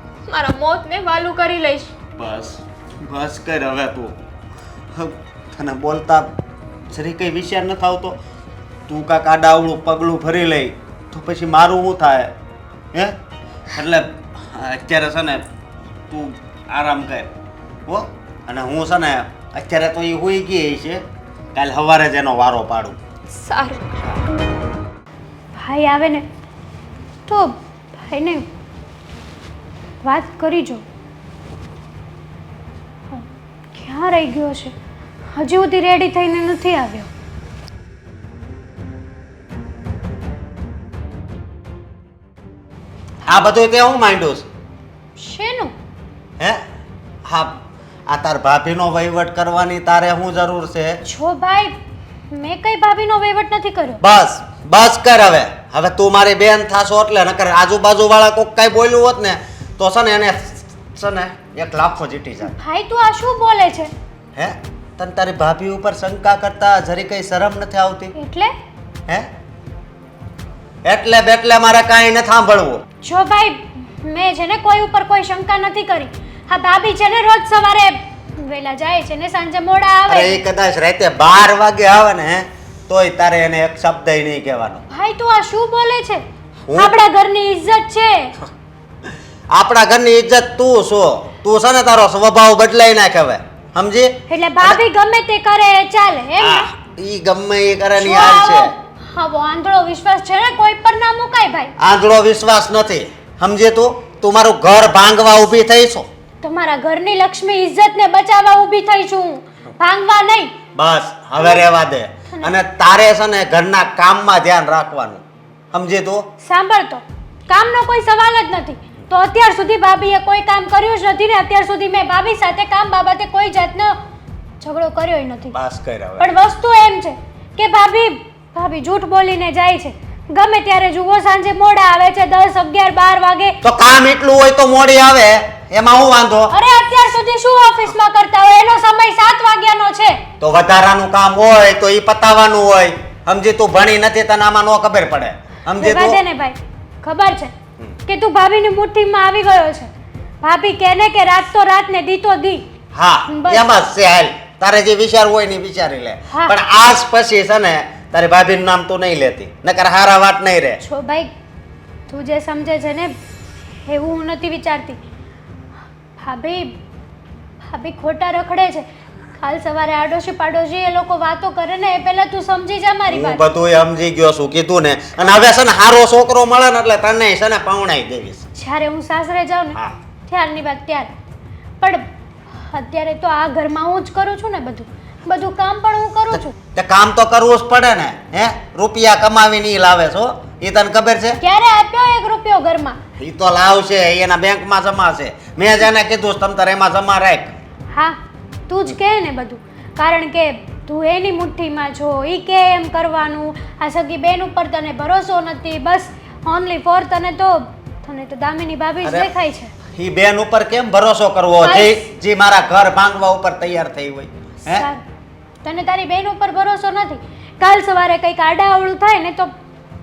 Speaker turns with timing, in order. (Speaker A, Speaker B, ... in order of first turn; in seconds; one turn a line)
Speaker A: 0.3-1.9
Speaker B: 2.2-4.2
Speaker B: 4.9-6.3
Speaker B: 6.9-8.2
Speaker B: 8.9-12.3
Speaker B: 13.7-15.4
Speaker B: 16.1-17.3
Speaker B: 17.9-21.0
Speaker B: 21.5-23.0
Speaker A: 23.3-23.8
Speaker C: 25.6-26.2
Speaker C: 27.3-28.4
Speaker C: 30.0-30.8
Speaker C: 33.1-34.7
Speaker C: 35.3-37.1
Speaker B: 43.2-44.5
Speaker C: 45.2-45.7
Speaker B: 47.2-51.0
Speaker C: 51.0-51.8
Speaker C: 52.3-54.0
Speaker B: 54.0-62.5
Speaker C: 62.5-63.9
Speaker B: 64.3-68.1
Speaker C: 68.1-68.5
Speaker B: 70.8-72.8
Speaker C: 73.0-80.4
Speaker B: 80.1-84.8
Speaker C: 84.9-86.2
Speaker B: 86.7-86.9
Speaker C: 86.7-88.3
Speaker B: 89.5-94.8
Speaker C: 94.3-96.7
Speaker B: 96.4-98.7
Speaker C: 98.0-101.7
Speaker B: 101.8-106.1
Speaker C: 106.4-110.5
Speaker B: 110.8-116.3
Speaker C: 111.4-111.6
Speaker C: 116.4-124.0
Speaker C: 124.6-125.5
Speaker B: 125.5-126.3
Speaker C: 126.2-133.6
Speaker B: 133.6-136.5
Speaker C: 136.5-140.2
Speaker B: 140.4-146.2
Speaker C: 145.8-147.5
Speaker C: 148.1-149.9
Speaker C: 150.4-152.6
Speaker B: 152.9-160.8
Speaker C: 153.3-153.8
Speaker C: 156.3-156.5
Speaker C: 160.8-161.3
Speaker C: 162.1-163.2
Speaker C: 163.8-165.0
Speaker C: 166.2-166.7
Speaker C: 167.6-173.4
Speaker B: 173.1-178.4
Speaker C: 178.5-181.1
Speaker C: 181.8-186.5
Speaker B: 186.7-191.4
Speaker C: 191.4-193.0
Speaker B: 193.2-197.6
Speaker C: 197.9-198.2
Speaker C: 198.7-209.7
Speaker B: 209.0-209.3
Speaker B: 209.9-214.8
Speaker C: 211.6-212.0
Speaker C: 214.7-215.0
Speaker C: 215.6-219.5